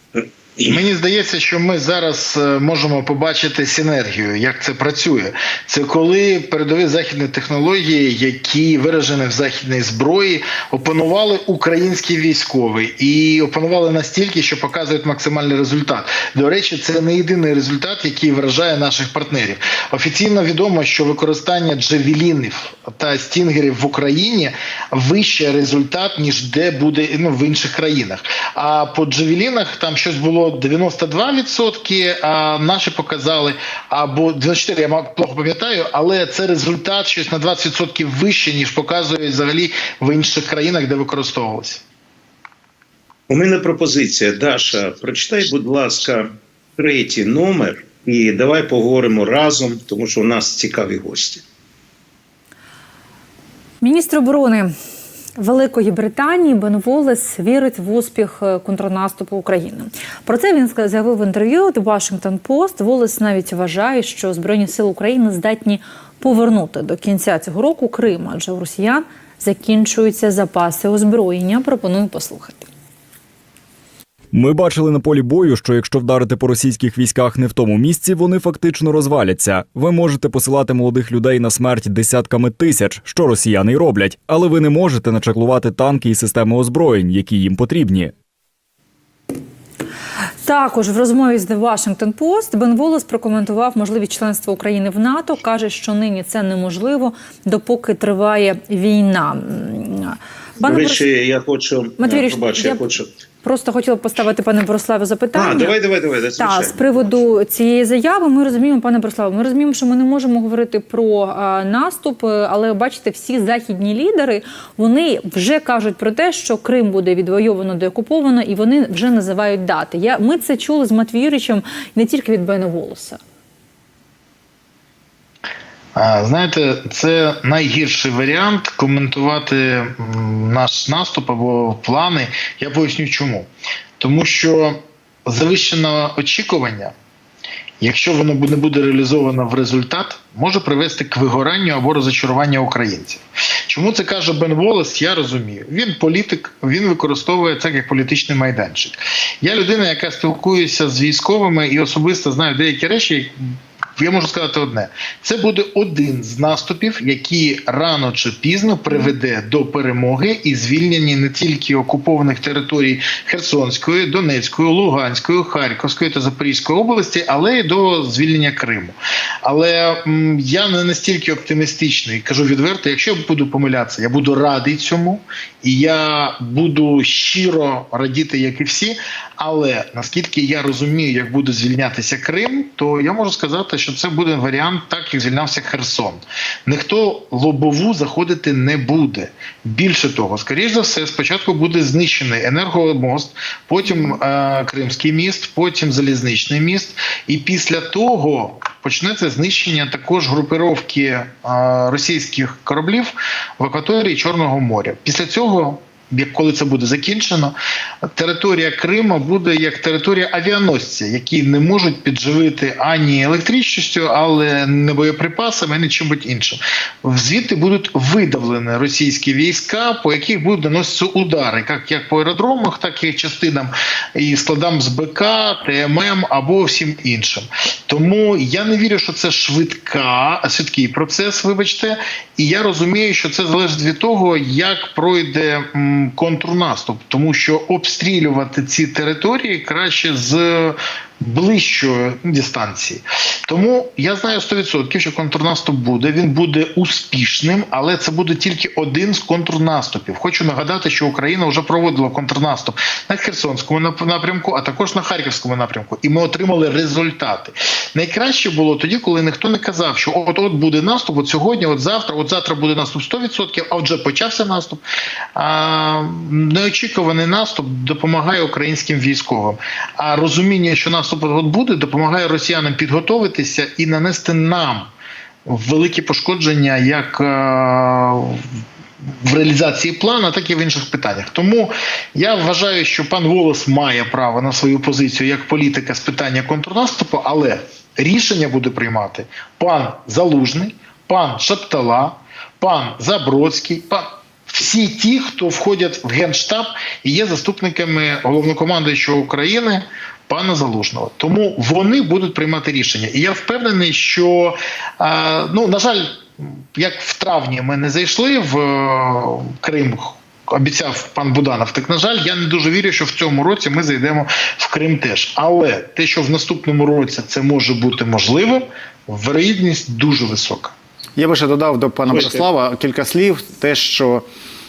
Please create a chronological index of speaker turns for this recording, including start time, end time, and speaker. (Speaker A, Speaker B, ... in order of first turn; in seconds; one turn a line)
Speaker A: 0.6-41.8
Speaker B: 43.3-51.4
Speaker C: 53.8-54.7
Speaker C: 55.4-72.7
Speaker D: 74.3-88.1
Speaker C: 90.4-101.1
Speaker B: 100.6-103.1
Speaker C: 102.0-102.9
Speaker C: 103.4-105.8
Speaker B: 105.3-107.2
Speaker C: 106.4-123.2
Speaker A: 126.0-136.9
Speaker A: 137.8-153.3
Speaker A: 154.0-207.6
Speaker A: 208.1-264.8
Speaker A: 265.4-274.9
Speaker A: 275.5-278.5
Speaker A: 279.2-320.7
Speaker E: 321.2-324.2
Speaker B: 322.1-322.4